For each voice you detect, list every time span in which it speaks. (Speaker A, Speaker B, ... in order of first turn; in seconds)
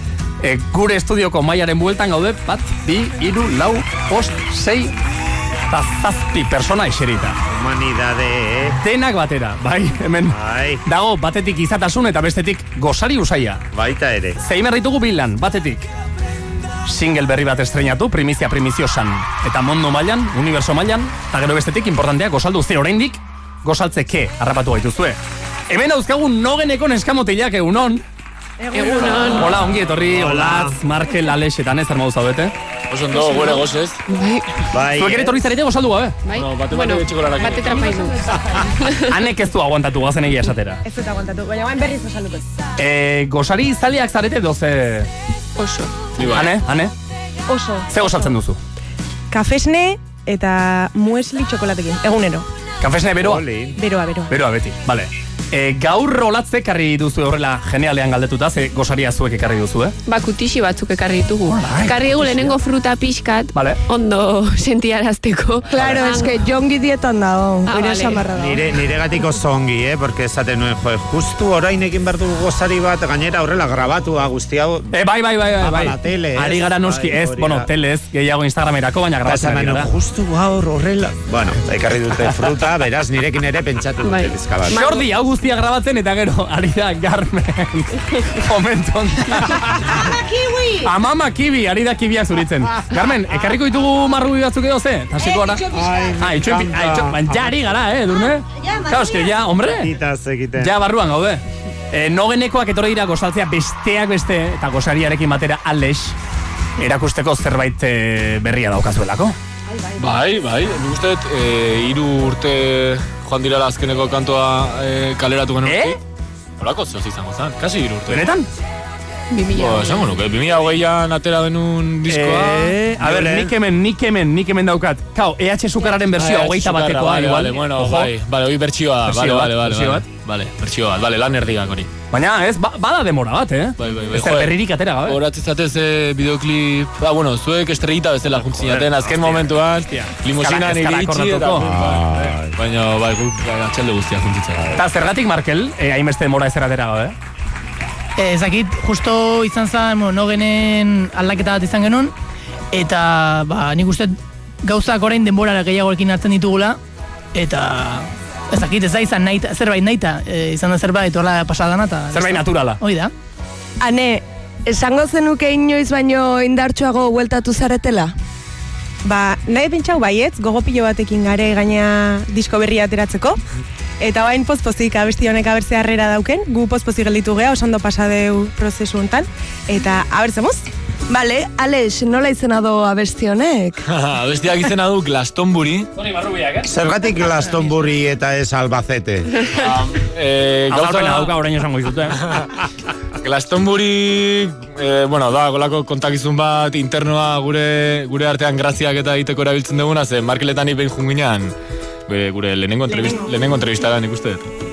Speaker A: 0.4-4.9, 5.7-7.3, 8.8-13.6, 14.4-15.9, 16.9-25.2, 25.7-28.0, 29.3-32.5, 35.0-36.1, 39.0-40.8, 42.8-45.1, 46.3-46.9, 47.9-48.6, 52.8-53.4, 54.3-59.9, 61.5-62.5, 63.5-63.8, 74.9-79.9, 84.7-90.1, 90.8-95.7, 96.2-99.9, 100.6-106.2, 106.8-109.3, 115.6-116.0, 118.1-118.5, 122.0-128.1, 129.1-130.0, 132.1-135.2, 138.6-141.8, 144.7-147.1, 162.1-162.8, 185.9-186.7, 190.7-192.2
Speaker B: 7.5-8.8, 10.3-10.8, 13.7-14.4, 30.1-30.8, 34.7-35.4, 53.2-53.8, 65.7-66.1, 68.3-74.9, 75.5-77.7, 79.2-84.8, 95.6-97.6, 99.5-100.7, 122.6-123.5, 141.6-142.6, 144.5-144.8, 186.6-189.4
Speaker C: 28.6-29.3, 37.9-38.3, 40.8-42.4, 47.5-48.1, 49.3-52.5, 53.8-54.3, 169.0-173.4, 174.0-180.6
Speaker D: 28.7-29.6, 33.2-34.7, 36.2-39.2, 45.6-45.9, 60.0-66.4, 67.7-68.2, 84.0-85.0, 119.3-120.1
Speaker E: 32.9-34.0, 36.3-37.9, 46.2-46.5, 110.0-116.0, 116.6-118.3, 119.5-122.7, 126.2-131.9, 133.8-144.7, 183.8-185.9, 189.5-191.3, 192.2-192.6, 193.2-201.5, 202.1-204.5
Speaker F: 65.7-68.6, 163.8-168.1, 181.1-183.8
Speaker G: 148.2-152.1, 152.7-156.8, 157.3-163.1